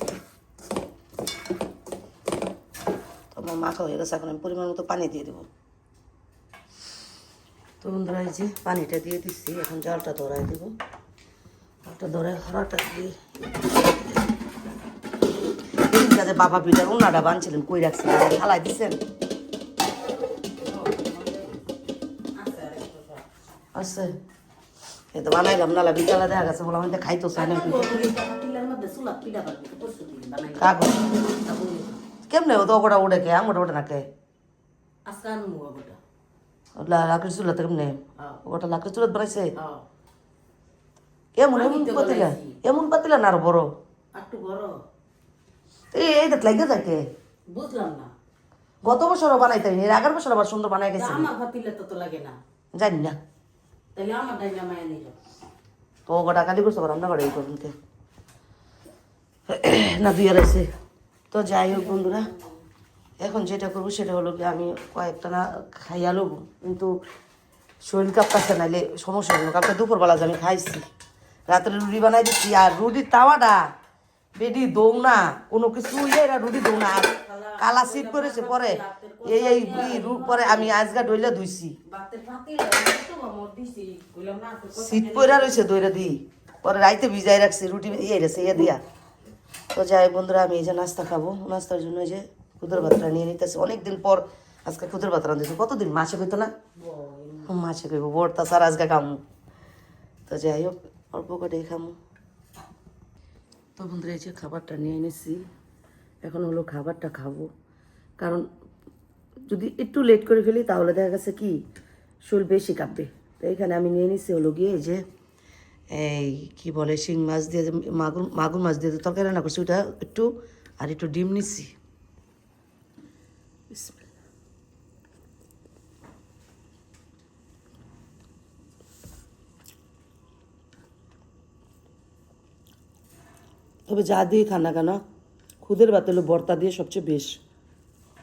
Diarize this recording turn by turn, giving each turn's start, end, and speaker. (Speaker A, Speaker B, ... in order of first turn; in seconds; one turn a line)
Speaker A: 3.3-5.5
Speaker A: 7.8-10.7
Speaker A: 11.8-13.8
Speaker A: 15.8-19.0
Speaker B: 20.6-21.6
Speaker B: 22.3-23.2
Speaker A: 23.7-24.1
Speaker A: 25.1-28.1
Speaker B: 27.3-32.0
Speaker A: 30.6-31.0
Speaker A: 32.3-34.0
Speaker B: 35.0-36.0
Speaker A: 36.8-39.5
Speaker B: 39.5-39.8
Speaker A: 41.4-43.7
Speaker B: 41.5-42.6
Speaker B: 44.1-44.8
Speaker A: 45.9-47.0
Speaker B: 47.5-48.1
Speaker A: 48.8-51.3
Speaker B: 51.0-52.4
Speaker A: 52.7-53.2
Speaker B: 53.9-55.2
Speaker A: 56.1-57.7
Speaker A: 59.5-60.7
Speaker A: 61.3-62.3
Speaker B: 61.7-62.4
Speaker A: 63.2-66.9
Speaker A: 67.8-70.8
Speaker A: 71.5-73.6
Speaker A: 74.3-81.8
Speaker B: 77.0-80.8
Speaker B: 81.9-85.6
Speaker A: 84.7-88.8
Speaker A: 89.7-96.5
Speaker B: 96.8-97.5
Speaker A: 97.5-99.2
Speaker A: 100.3-102.0
Speaker A: 103.8-105.4
Speaker A: 106.2-107.5
Speaker A: 108.2-108.5
Speaker A: 109.5-111.6
Speaker A: 112.2-115.0
Speaker A: 115.9-121.7
Speaker A: 133.9-135.0
Speaker A: 135.6-137.4